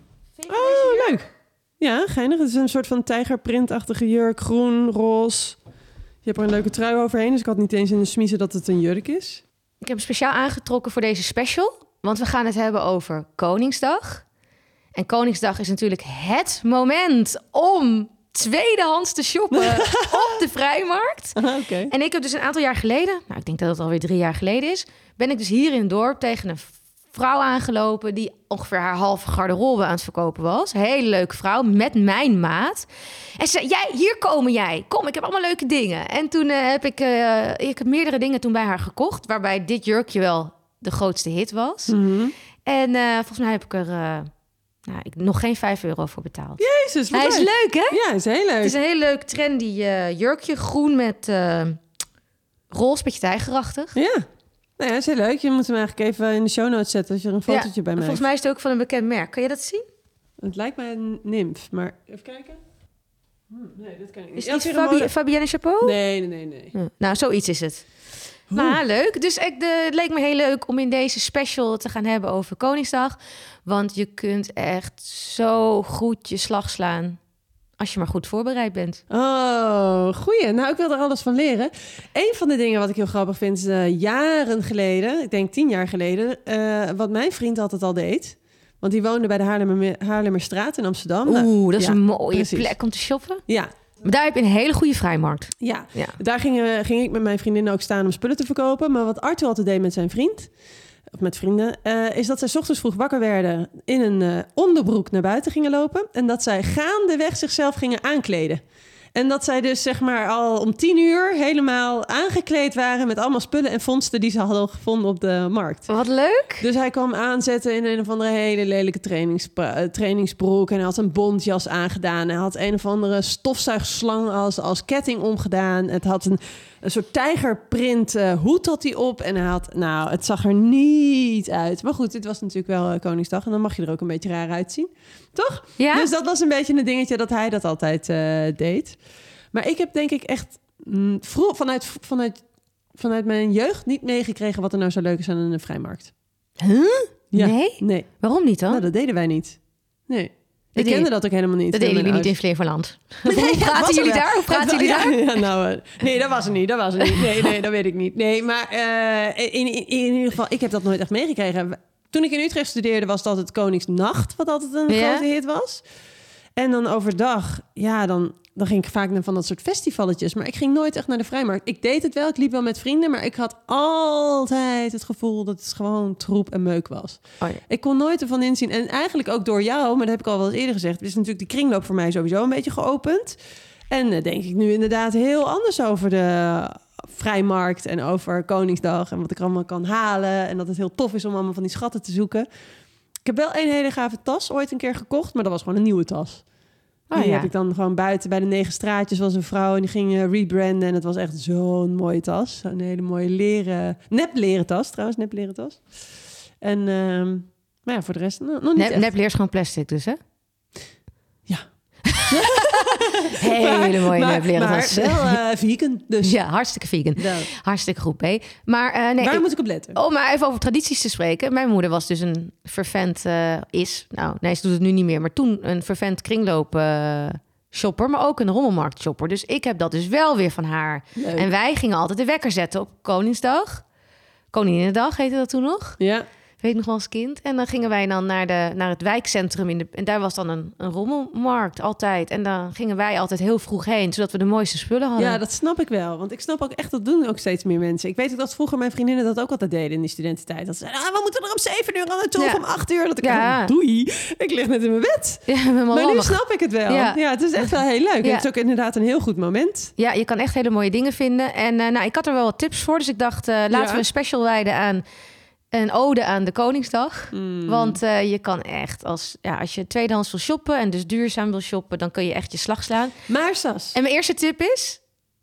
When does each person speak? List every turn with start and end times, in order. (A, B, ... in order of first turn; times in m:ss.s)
0:00.4-0:01.2 A
0:00.5-0:01.2 B
0:01.8-0:05.6 B
0:06.2-0:09.4 B
0:09.8-0:14.2 A
0:14.9-0:41.9 A
0:19.5-0:20.4 B
0:21.4-0:21.9 B
0:41.9-0:42.3 B
0:42.6-0:44.3 A
0:44.8-0:46.6 A
0:46.6-0:48.8 B
0:47.1-0:48.0 A
0:48.6-0:51.8 A
0:52.7-0:54.0 A
0:53.9-0:54.2 B
0:54.8-0:58.2 B
0:57.5-0:59.8 A
1:00.4-1:02.6 B
1:03.5-1:05.1 B
1:04.4-1:06.0 A
1:05.8-1:06.7 B
1:06.7-1:07.8 A
1:08.5-1:08.8 B
1:08.5-1:17.2 A
1:17.8-1:19.0 A
1:19.1-1:32.7 B
1:31.2-1:33.4 A
1:34.0-1:36.2 A
1:35.6-1:40.5 B
1:41.1-1:48.6 B
1:49.1-1:55.9 B
1:55.9-1:56.6 A
1:56.6-2:19.0 B
2:15.8-2:16.1 A
2:19.5-2:22.4 B
2:22.9-2:26.1 B
2:26.6-2:28.8 A
2:27.3-2:28.1 B
2:28.7-2:32.3 B
2:30.8-2:31.1 A
2:31.7-2:35.3 A
2:33.2-2:45.8 B
2:37.0-2:37.5 A
2:44.9-2:45.2 A
2:46.6-3:03.4 B
3:03.9-3:12.5 B
3:13.2-3:16.4 B
3:17.1-3:17.5 A
3:17.1-3:25.8 B
3:26.6-3:29.1 B
3:28.8-3:30.2 A
3:32.0-3:32.6 A
3:32.3-3:36.4 B
3:33.3-3:35.4 A
3:36.2-3:39.4 A
3:37.2-3:37.5 B
3:39.2-3:40.0 B
3:39.9-3:53.8 A
3:51.2-3:51.5 B
3:54.5-3:56.0 A
3:56.0-3:56.2 B
3:56.6-4:05.4 A
4:05.2-4:19.9 B
4:12.4-4:12.6 A
4:13.2-4:13.7 A
4:15.5-4:18.4 A
4:20.0-4:25.0 A
4:23.7-4:24.0 B
4:25.7-4:33.1 A
4:27.3-4:28.0 B
4:33.3-4:34.0 B
4:33.9-4:35.0 A